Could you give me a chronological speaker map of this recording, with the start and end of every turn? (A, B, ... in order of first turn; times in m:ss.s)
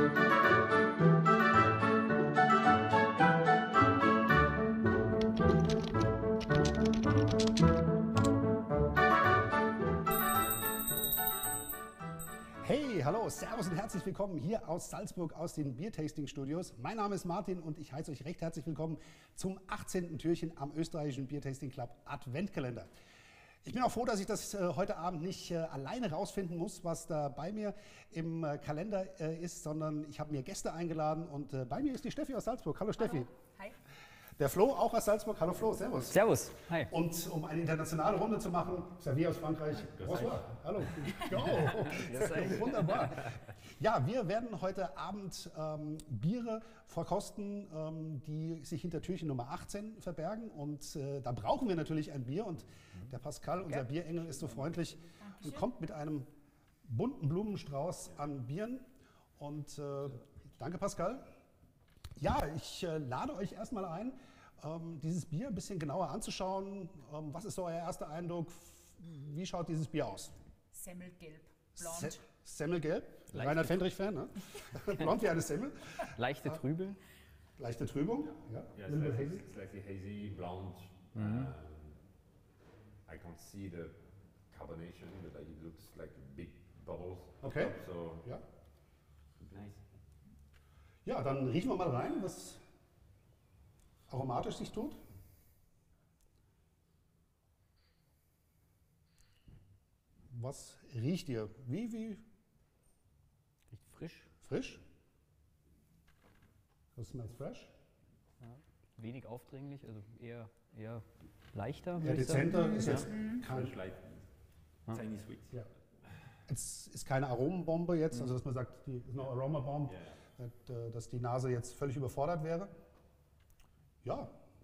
0:12.6-0:22.9 A
0:23.6-0:33.3 A
0:33.0-0:33.8 B
0:34.4-0:36.2 A
0:36.1-0:36.9 C
0:36.9-0:56.3 A
0:40.0-0:40.4 D
0:41.8-0:43.1 C
0:55.2-0:55.6 B
0:56.9-0:58.8 A
0:59.4-1:01.2 A
1:02.2-1:10.3 A
1:10.7-1:12.2 B
1:11.8-1:16.6 A
1:13.3-1:13.8 C
1:16.1-1:17.0 C
1:17.6-1:19.4 A
1:18.8-1:22.0 D
1:21.2-1:21.5 C
1:23.1-1:24.0 D
1:24.5-1:28.2 D
1:27.4-1:28.4 A
1:29.4-1:29.8 D
1:31.0-1:32.6 A
1:34.1-1:35.0 A
1:40.3-1:42.2 A
1:43.7-1:44.3 C
1:44.4-1:44.8 A
1:47.0-1:47.7 A
1:48.4-1:53.1 C
1:52.0-1:53.8 A
1:52.5-1:53.4 B
1:53.4-1:54.2 D
1:54.9-1:55.5 D
1:56.5-2:02.7 A
1:59.9-2:00.2 D
2:04.0-2:04.3 A